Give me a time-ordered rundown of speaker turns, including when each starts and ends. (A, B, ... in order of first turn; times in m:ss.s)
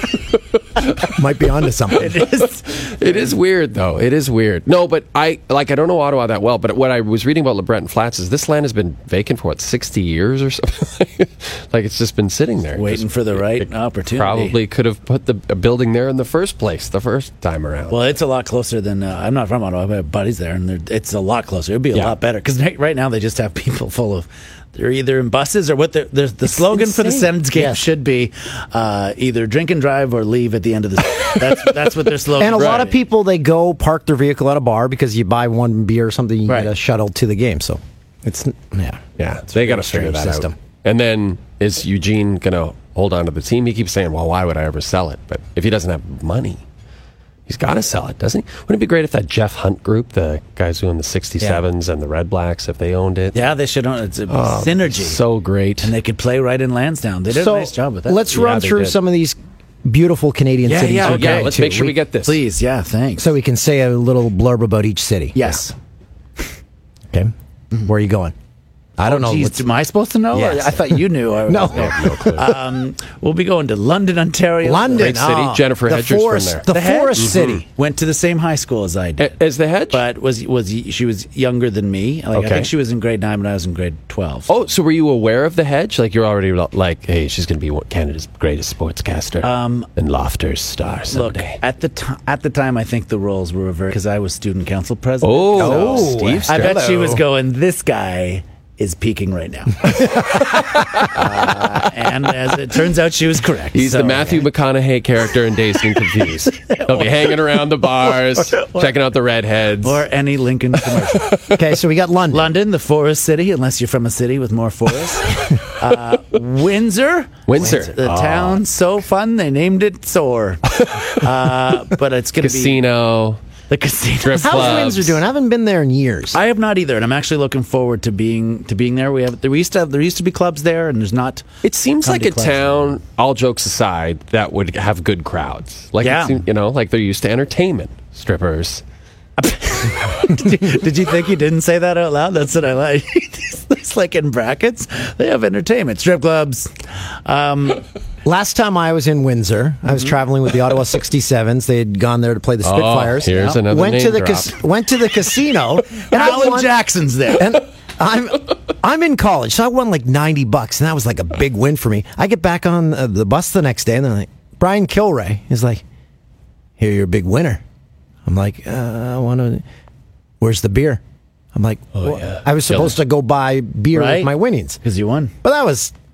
0:01.0-0:02.1 A
0:01.9-0:03.3 B
0:02.7-0:18.0 C
0:12.7-0:14.6 B
0:17.9-0:33.0 B
0:26.7-0:27.8 A
0:32.4-0:40.5 A
0:32.5-0:32.9 C
0:36.5-0:36.7 B
0:39.2-0:46.6 C
0:47.5-0:53.4 C
0:53.3-0:55.2 B
0:54.3-0:55.9 C
0:55.8-0:58.4 B
0:57.3-1:01.9 A
0:58.3-0:59.0 C
1:00.6-1:02.4 C
1:01.0-1:01.6 B
1:02.2-1:03.3 B
1:03.2-1:05.5 A
1:05.4-1:05.7 B
1:07.9-1:08.4 A
1:09.0-1:09.6 A
1:09.0-1:15.2 B
1:10.3-1:12.6 A
1:11.7-1:12.5 C
1:14.6-1:17.6 A
1:15.0-1:17.6 C
1:16.7-1:19.4 B
1:19.2-1:20.0 C
1:19.9-1:24.5 B
1:22.3-1:22.7 C
1:24.5-1:31.6 C
1:29.4-1:29.9 B
1:31.1-1:40.4 B
1:35.2-1:36.8 C
1:35.6-1:37.2 A
1:40.2-1:41.6 C
1:41.0-1:44.4 B
1:43.7-1:50.0 C
1:46.4-1:48.9 B
1:49.8-1:51.3 B
1:51.2-1:51.6 C
1:51.5-1:52.5 A
1:52.3-2:02.8 B
1:57.5-1:58.6 C
2:00.8-2:01.2 C
2:02.4-2:03.4 C
2:03.7-2:05.0 B
2:04.2-2:05.2 C
2:04.4-2:06.4 A
2:06.3-2:11.4 B
2:11.6-2:18.8 C
2:12.0-2:12.9 B
2:16.0-2:16.4 B
2:19.4-2:26.7 B
2:27.2-2:27.8 B
2:28.2-2:36.7 A
2:32.6-2:34.5 C
2:36.0-2:37.6 B
2:37.4-2:45.8 A
2:46.8-2:47.6 A
2:48.2-2:49.6 A
2:50.4-2:51.0 A
2:51.5-2:54.8 A
2:52.0-2:52.9 C
2:53.9-2:54.3 B
2:54.8-2:55.3 B
2:55.4-2:55.9 A